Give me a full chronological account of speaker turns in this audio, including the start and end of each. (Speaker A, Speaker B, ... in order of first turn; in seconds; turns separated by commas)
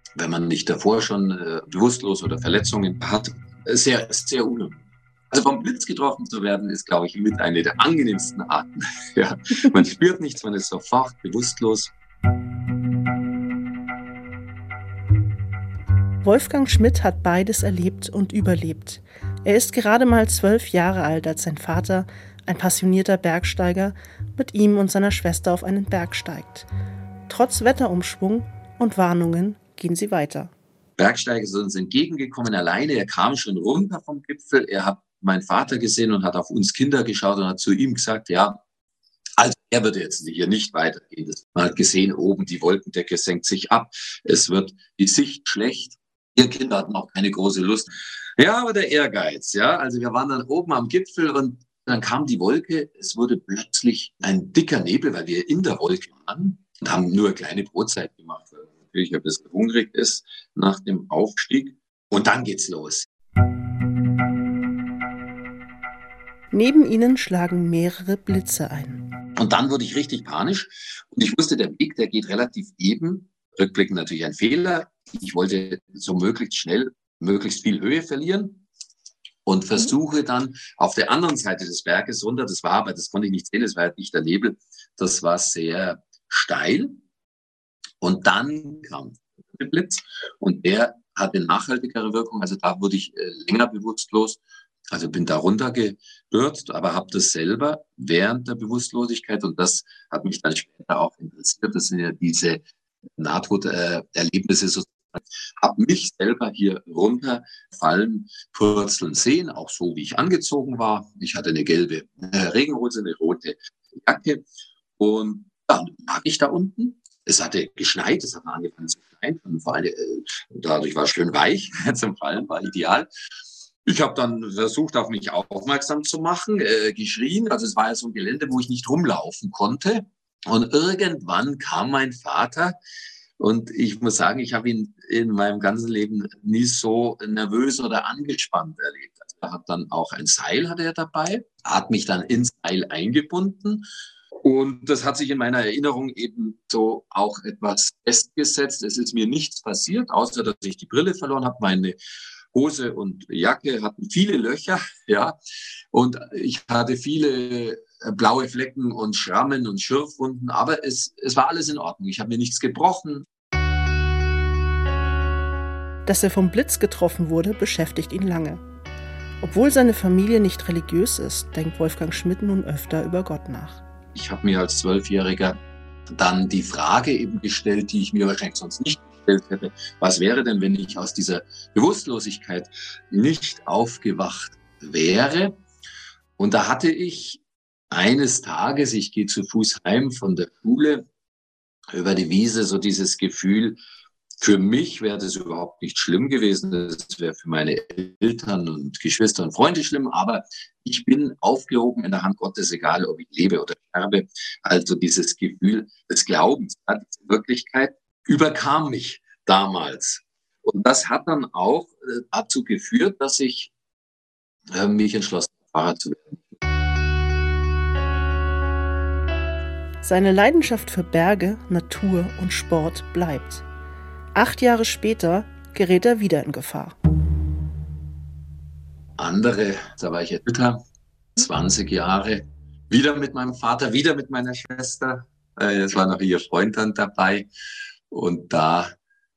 Speaker A: 0.2-11.9, Speaker B: 16.2-26.7, Speaker B: 27.3-30.5, Speaker A: 31.0-38.6, Speaker A: 39.4-63.1, Speaker B: 66.5-69.0, Speaker A: 69.4-78.6, Speaker A: 79.5-87.0, Speaker A: 88.0-102.6, Speaker A: 103.2-114.5, Speaker A: 115.0-123.1, Speaker A: 123.8-132.8, Speaker A: 133.4-143.9, Speaker A: 144.4-152.0, Speaker A: 152.5-155.4, Speaker A: 155.9-163.2, Speaker B: 166.1-168.6, Speaker B: 169.4-173.8, Speaker A: 174.1-175.6, Speaker A: 176.1-185.6, Speaker A: 186.4-191.1, Speaker A: 191.9-193.8, Speaker A: 194.4-213.7, Speaker A: 214.7-216.5, Speaker B: 220.0-223.7, Speaker B: 224.3-227.0, Speaker A: 229.2-230.8, Speaker A: 231.4-237.5, Speaker A: 238.1-238.9